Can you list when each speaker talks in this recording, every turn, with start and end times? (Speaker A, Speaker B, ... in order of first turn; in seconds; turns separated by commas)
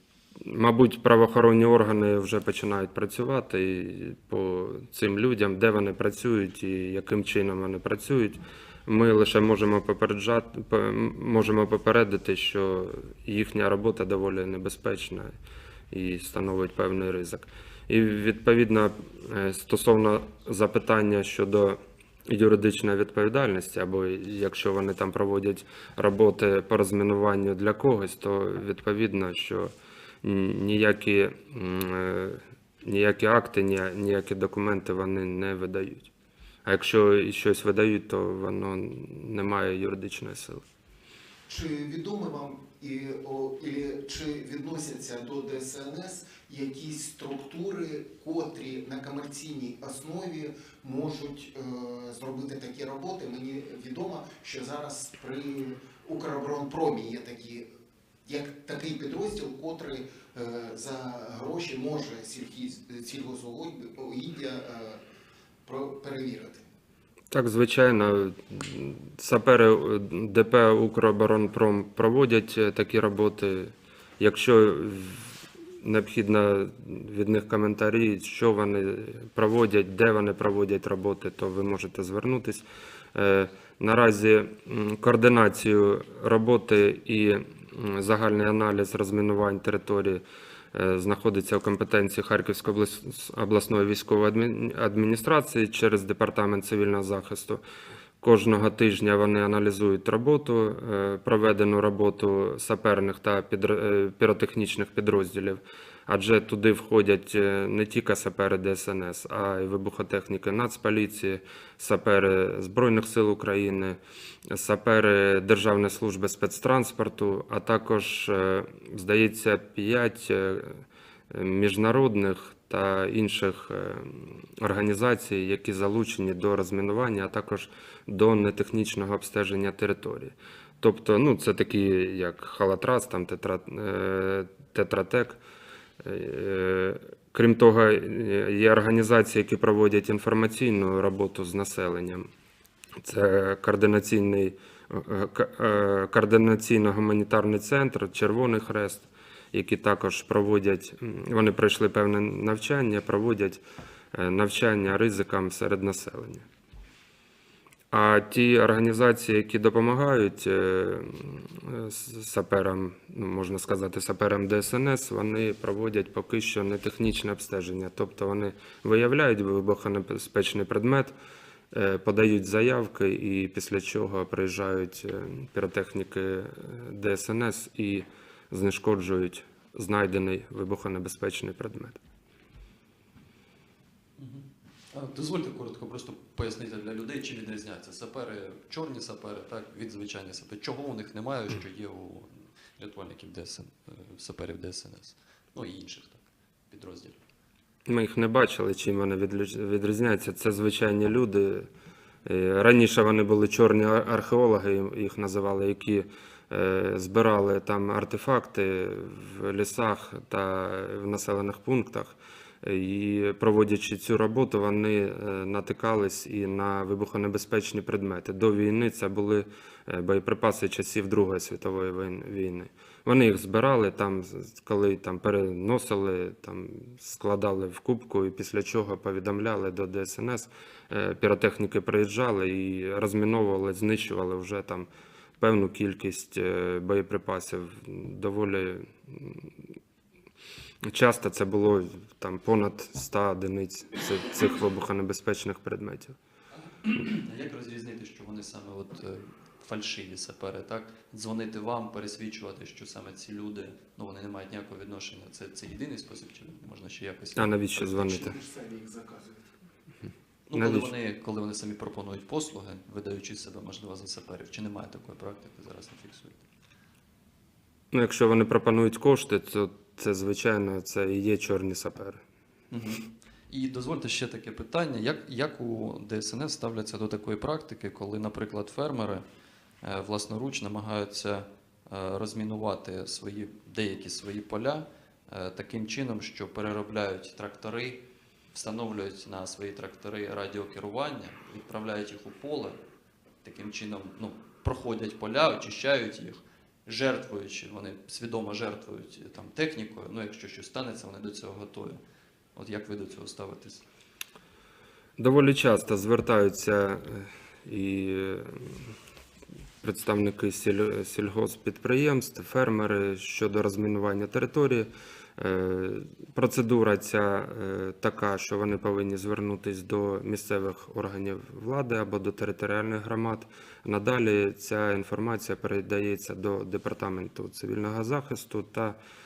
Speaker A: 0.4-15.4, Speaker A: 15.9-29.7, Speaker A: 30.2-36.1, Speaker A: 36.6-40.6, Speaker B: 41.5-57.7, Speaker B: 58.2-65.0, Speaker B: 65.7-66.7, Speaker A: 67.3-75.3, Speaker A: 75.8-97.6, Speaker A: 98.2-114.0, Speaker A: 114.5-135.4, Speaker A: 136.0-142.3, Speaker A: 143.0-153.6, Speaker A: 154.1-156.5, Speaker A: 157.9-171.1, Speaker A: 171.7-182.0, Speaker C: 184.2-197.2, Speaker A: 197.9-201.7, Speaker A: 202.2-234.9, Speaker A: 235.4-239.5, Speaker A: 240.8-246.2, Speaker C: 246.6-257.5, Speaker A: 257.4-258.4, Speaker B: 257.9-259.4, Speaker C: 260.5-266.4, Speaker A: 260.5-260.9, Speaker A: 267.9-272.2, Speaker C: 272.7-279.2, Speaker C: 279.8-292.8, Speaker C: 293.4-302.0, Speaker C: 302.6-303.8, Speaker A: 305.2-308.9, Speaker A: 309.8-329.0